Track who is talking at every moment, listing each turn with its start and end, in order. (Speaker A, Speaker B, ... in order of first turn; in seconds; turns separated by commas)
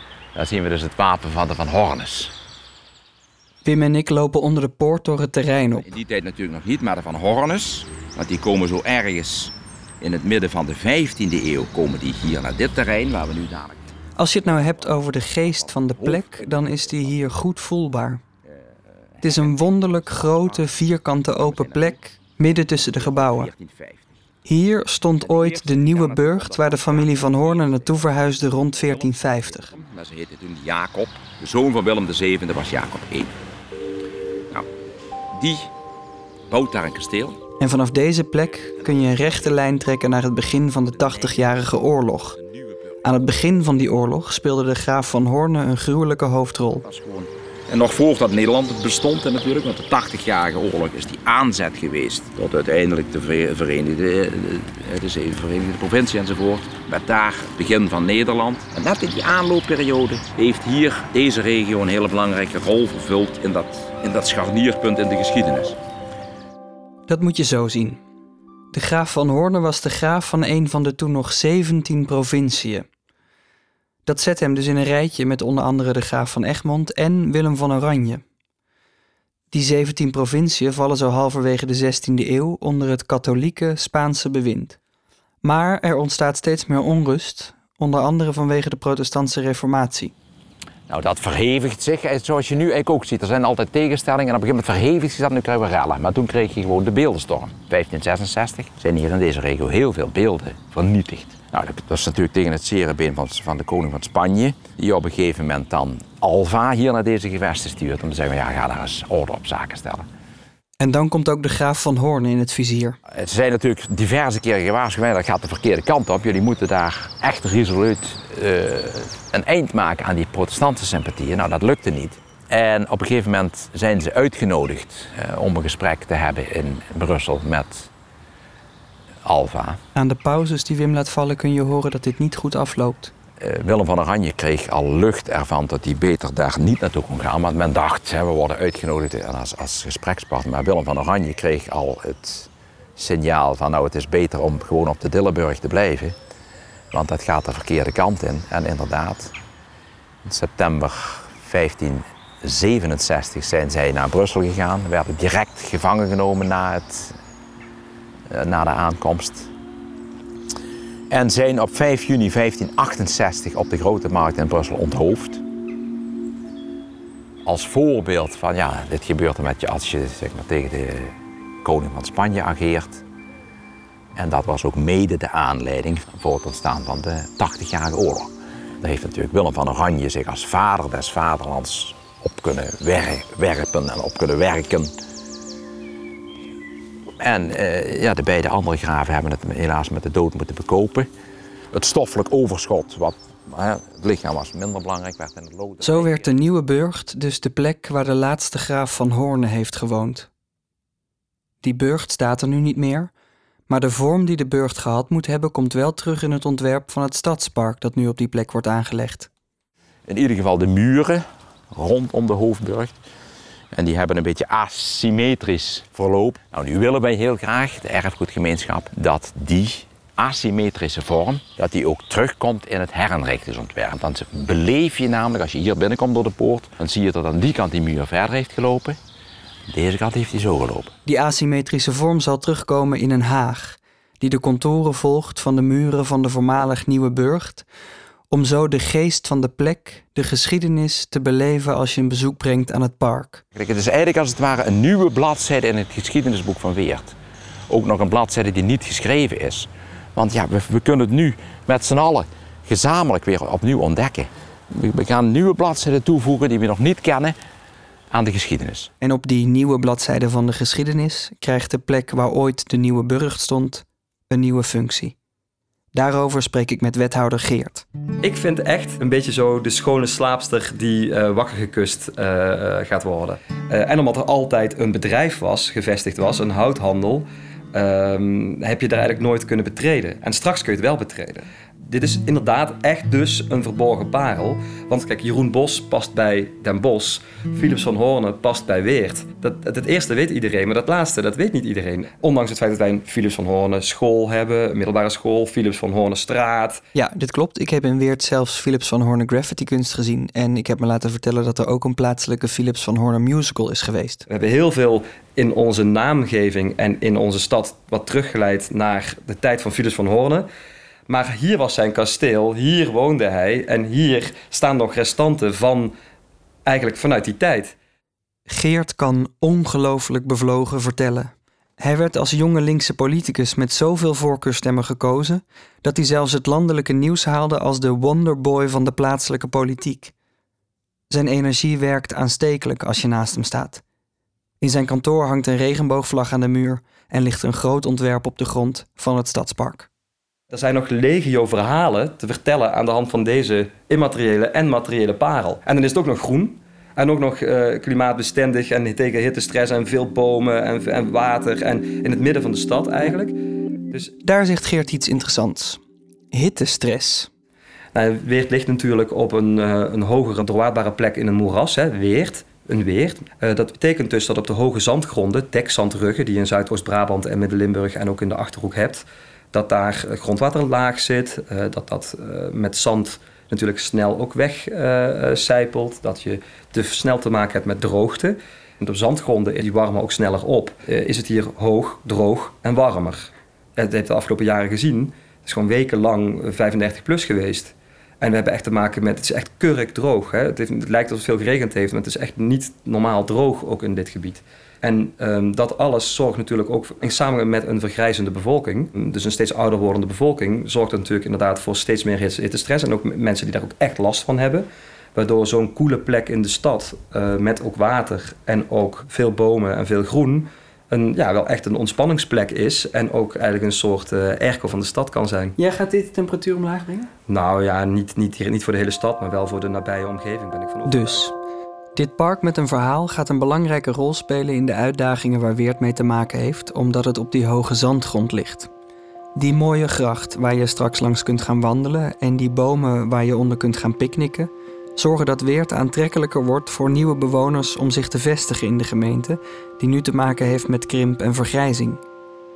Speaker A: 0.3-2.3, Speaker B: 3.6-5.9, Speaker A: 5.8-13.9, Speaker B: 14.2-18.2, Speaker A: 15.5-16.7, Speaker A: 19.1-20.7, Speaker B: 19.2-23.5, Speaker A: 21.4-22.0, Speaker A: 22.9-24.2, Speaker B: 24.4-29.7, Speaker A: 25.2-33.3, Speaker A: 35.3-35.7, Speaker A: 36.5-37.4, Speaker B: 37.6-42.4, Speaker A: 40.9-41.5, Speaker A: 42.4-42.8, Speaker B: 43.0-46.9, Speaker A: 46.8-65.8, Speaker B: 67.1-68.0, Speaker B: 68.7-72.8, Speaker B: 74.1-78.2, Speaker B: 79.5-84.8, Speaker B: 85.4-90.1, Speaker A: 90.9-110.1, Speaker B: 110.8-113.0, Speaker A: 113.1-127.9, Speaker A: 129.2-129.8, Speaker B: 129.9-133.1, Speaker A: 133.4-146.2, Speaker A: 146.9-149.3, Speaker A: 150.2-157.2, Speaker A: 158.3-159.5, Speaker A: 161.1-165.4, Speaker A: 167.4-173.0, Speaker A: 174.2-178.3, Speaker A: 178.8-184.9, Speaker A: 187.2-191.1, Speaker A: 191.7-196.3, Speaker B: 195.8-200.3, Speaker B: 201.6-203.1, Speaker B: 203.7-209.3, Speaker A: 210.1-213.0, Speaker A: 213.7-229.0, Speaker A: 229.7-230.9, Speaker B: 231.1-237.7, Speaker B: 238.3-243.4, Speaker A: 243.5-247.2, Speaker A: 247.7-257.4, Speaker A: 258.1-258.9, Speaker B: 259.0-265.2, Speaker B: 265.9-267.9, Speaker C: 268.2-296.8, Speaker B: 296.9-304.2, Speaker C: 304.3-310.5, Speaker C: 311.1-315.9, Speaker C: 316.7-317.8, Speaker B: 318.5-330.1, Speaker B: 331.1-333.8, Speaker B: 334.6-339.9, Speaker C: 340.5-354.1, Speaker B: 354.2-355.8, Speaker B: 356.3-357.3, Speaker C: 357.9-415.6, Speaker B: 415.6-417.1, Speaker C: 417.3-421.3, Speaker B: 420.9-421.3, Speaker B: 421.9-428.7, Speaker B: 429.4-442.0